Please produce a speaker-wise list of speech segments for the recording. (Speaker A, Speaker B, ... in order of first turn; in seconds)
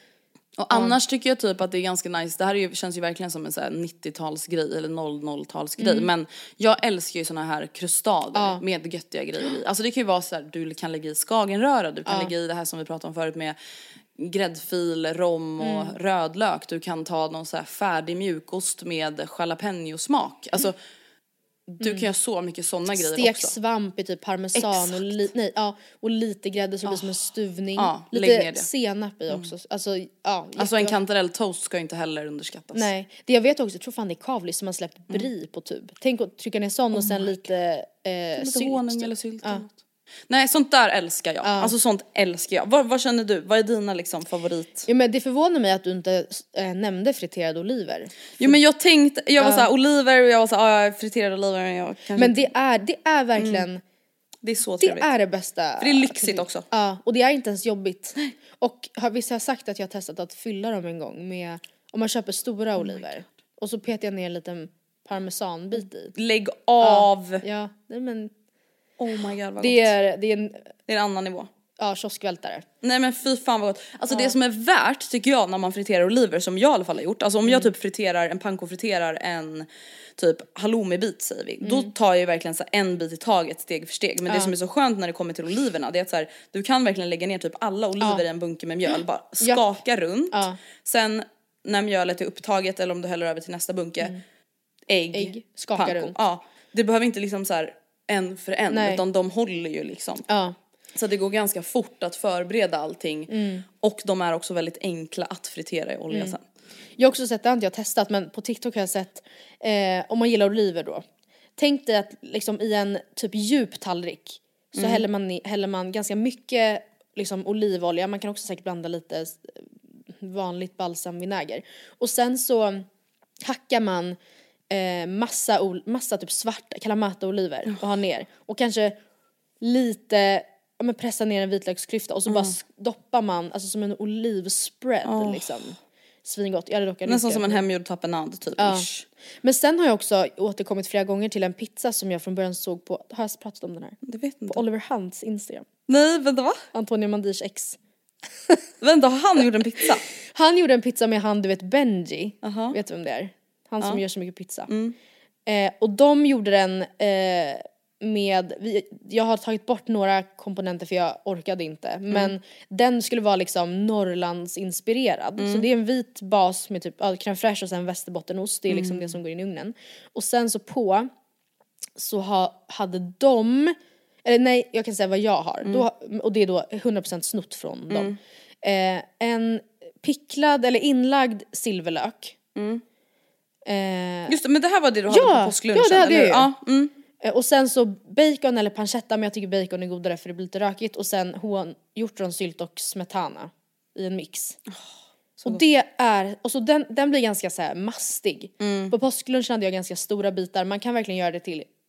Speaker A: 0.6-13.6, 14.2-20.8, 21.7-23.5, 24.5-25.3, 26.8-28.7, 30.6-32.9, 36.9-37.4, 38.4-39.7, 40.3-44.9, 48.4-52.5, 53.4-53.6, 54.4-55.1, 55.8-56.6, 62.8-63.2, 66.2-67.4, 69.0-69.9, 70.9-71.5, 72.8-94.2, 94.9-100.2, 100.9-106.4, 114.7-115.0, 132.3-132.5, 135.0-135.8, 137.1-139.0, 144.1-144.6, 145.9-146.6, 148.8-150.1, 152.4-152.8, 154.7-154.9, 165.4-165.7, 168.7-169.1, 177.9-178.2, 182.5-182.8, 184.3-186.9, 194.7-195.6, 198.6-198.9
Speaker B: 0.7-1.0, 5.8-6.1, 8.3-8.6, 12.1-12.3, 15.6-15.9, 21.8-22.1, 22.9-30.9, 32.7-39.6, 41.4-41.7, 44.9-48.6, 49.4-49.7, 52.1-53.8, 54.8-66.1, 66.8-68.3, 69.6-70.7, 71.8-72.7, 74.1-74.3, 77.4-77.7, 81.6-81.9, 84.3-84.5, 90.3-90.6, 95.1-96.2, 98.7-99.0, 100.3-100.6, 103.3-103.7, 106.1-106.4, 107.0-111.0, 111.6-122.8, 123.4-124.2, 124.7-129.0, 129.6-137.6, 138.6-138.9, 139.4-145.7, 146.7-147.8, 150.2-154.7, 155.4-171.1, 172.0-182.4, 183.7-184.4, 185.1-186.5, 187.2-194.6, 195.4-201.7